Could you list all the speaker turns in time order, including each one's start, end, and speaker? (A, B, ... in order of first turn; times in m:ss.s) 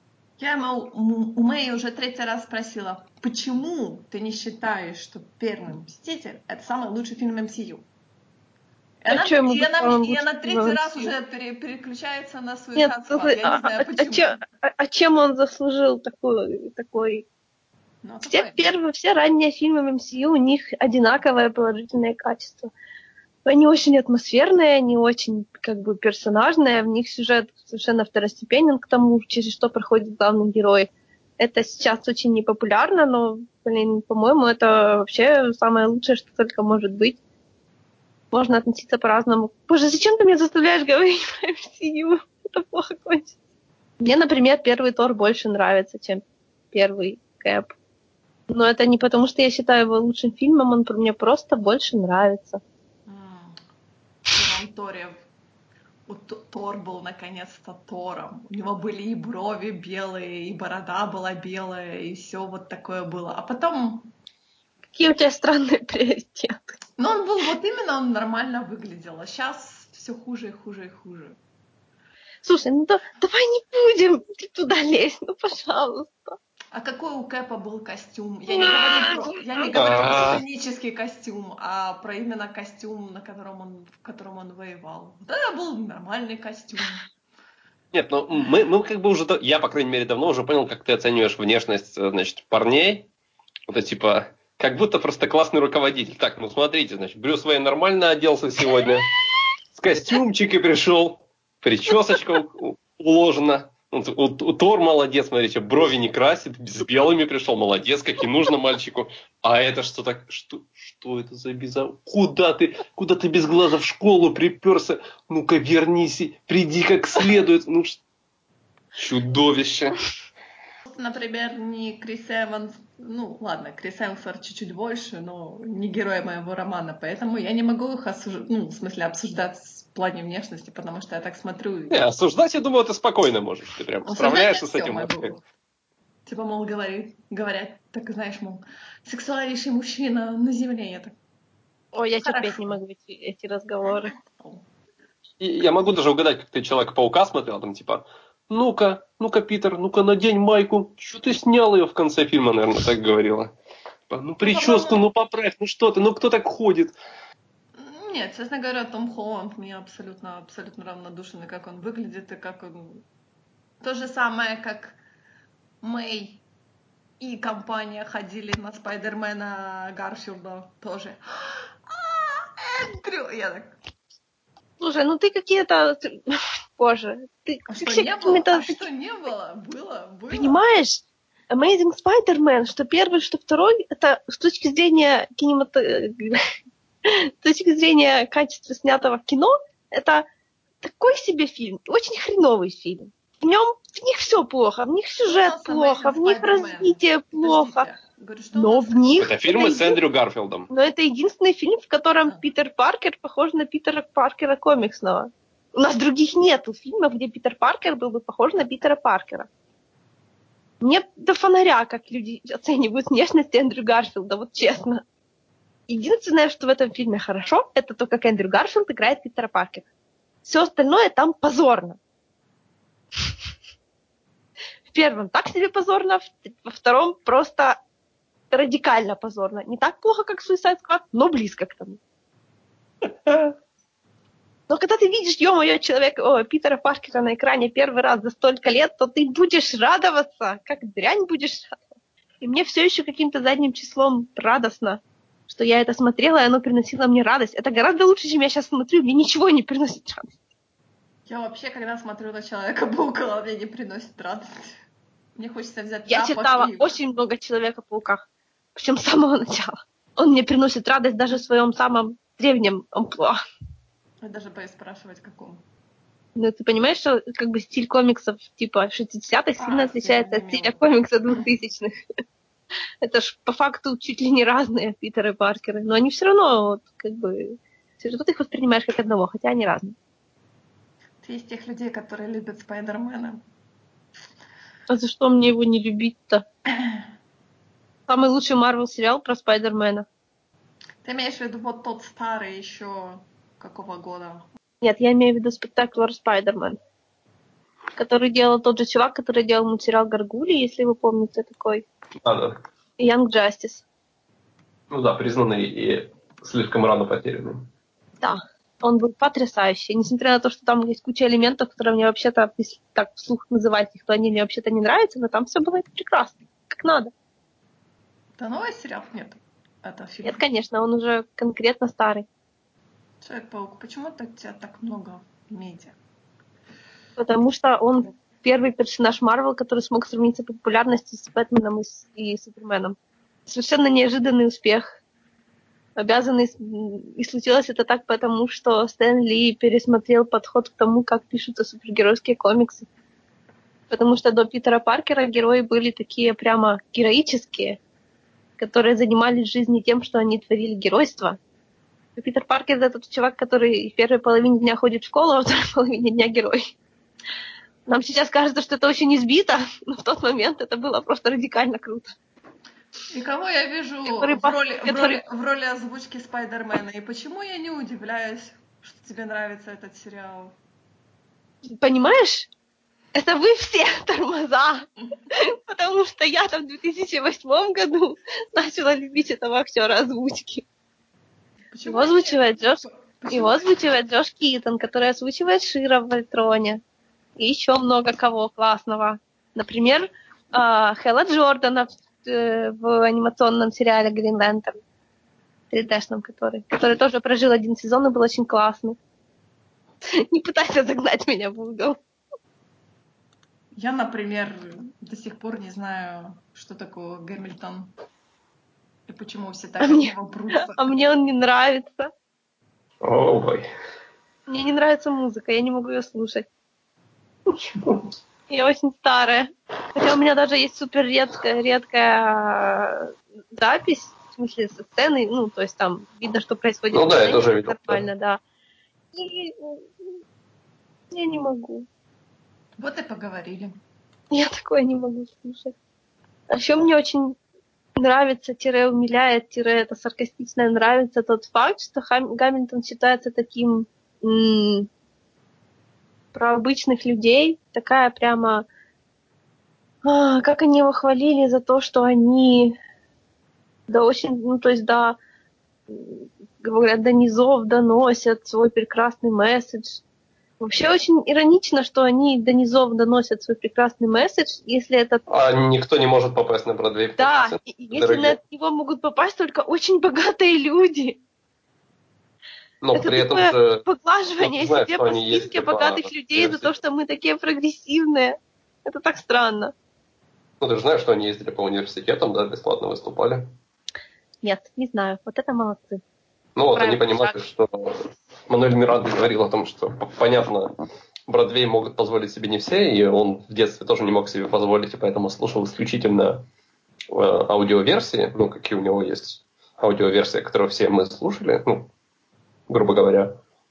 0:00.4-0:07.8 A
0:09.0-0:14.4 A
0:09.1-0:11.1 B
0:12.8-0:17.3 B
0:18.0-0:18.6 A
0:18.2-0:22.7 B
0:23.4-0:37.2 B
0:38.3-0:43.3 B
0:44.0-0:47.7 B
0:48.5-0:52.6 B
0:53.1-0:53.6 A
0:54.3-0:55.2 A
0:56.1-1:04.1 A
1:04.9-1:06.6 B
1:07.0-1:11.4 A
1:12.4-1:16.4 B
1:16.7-1:27.0 A
1:18.5-1:20.4 B
1:19.8-1:20.4 C
1:27.9-1:33.1 C
1:33.7-1:39.1 C
1:39.7-1:58.0 C
1:58.9-1:59.9 C
2:00.8-2:12.0 A
2:11.9-2:15.3 C
2:14.0-2:15.4 A
2:16.2-2:21.1 A
2:21.9-2:24.1 B
2:22.2-2:22.6 A
2:24.2-2:24.6 A
2:25.4-2:33.5 C
2:34.1-2:36.9 C
2:34.4-2:35.0 A
2:37.7-2:43.0 A
2:43.8-2:45.0 A
2:45.8-2:46.4 A
2:47.2-2:53.8 A
2:54.8-2:58.8 B
2:57.7-3:00.6 A
3:00.3-3:06.5 B
3:07.0-3:10.2 B
3:10.8-3:17.9 B
3:15.2-3:19.2 A
3:18.5-3:20.0 B
3:19.2-3:20.7 C
3:20.7-3:29.5 B
3:30.8-3:35.0 B
3:35.9-3:39.8 B
3:40.4-3:42.0 B
3:44.9-3:47.8 B
3:48.5-3:52.0 B
3:54.7-4:10.3 B
4:11.3-4:14.8 A
4:15.4-4:16.9 A
4:16.1-4:18.2 B
4:18.7-4:23.4 B
4:24.2-4:25.6 A
4:26.4-4:31.9 B
4:29.6-4:30.8 A
4:33.0-4:39.9 B
4:41.2-4:43.4 A
4:44.9-4:46.4 B
4:46.7-4:47.0 A
4:48.1-4:50.1 B
4:51.0-4:54.5 A
4:54.8-4:56.8 B
4:58.0-5:01.8 B
5:02.2-5:02.6 C
5:03.0-5:03.8 B
5:04.9-5:07.7 C
5:08.2-5:17.1 B
5:18.4-5:20.4 A
5:20.2-5:22.2 B
5:23.2-5:26.0 A
5:27.2-5:33.0 B
5:33.5-5:34.8 B
5:36.0-5:42.9 B
5:43.9-5:47.8 B
5:48.6-5:51.4 B
5:52.2-5:56.7 B
5:57.9-6:02.1 B
6:03.1-6:10.6 A
6:04.0-6:05.2 B
6:11.6-6:12.5 B
6:13.1-6:20.6 B
6:21.7-6:22.7 A
6:21.8-6:26.8 B
6:23.2-6:23.7 A
6:27.4-6:34.7 B
6:35.7-6:39.0 B
6:40.1-6:42.0 B
6:43.8-6:47.9 A
6:49.1-6:51.0 A
6:49.8-6:52.1 B
6:53.0-6:53.7 C
6:54.5-6:56.4 B
6:58.5-7:08.4 B
7:06.9-7:08.1 C
7:09.1-7:10.1 B
7:11.1-7:11.9 B
7:12.8-7:13.8 A
7:14.3-7:15.7 B
7:16.5-7:17.4 B
7:18.0-7:24.9 B
7:26.3-7:28.6 B
7:30.0-7:32.8 B
7:33.9-7:35.2 B
7:35.9-7:40.0 B
7:40.6-7:45.2 B
7:45.3-7:48.4 C
7:47.2-7:51.2 B
7:52.8-7:53.8 C
7:52.9-7:59.7 B
7:54.4-7:56.7 C
8:00.6-8:03.5 C
8:04.4-8:06.0 B
8:06.6-8:10.7 C
8:06.7-8:07.3 B
8:11.3-8:16.4 C
8:17.1-8:21.9 C
8:22.7-8:23.4 C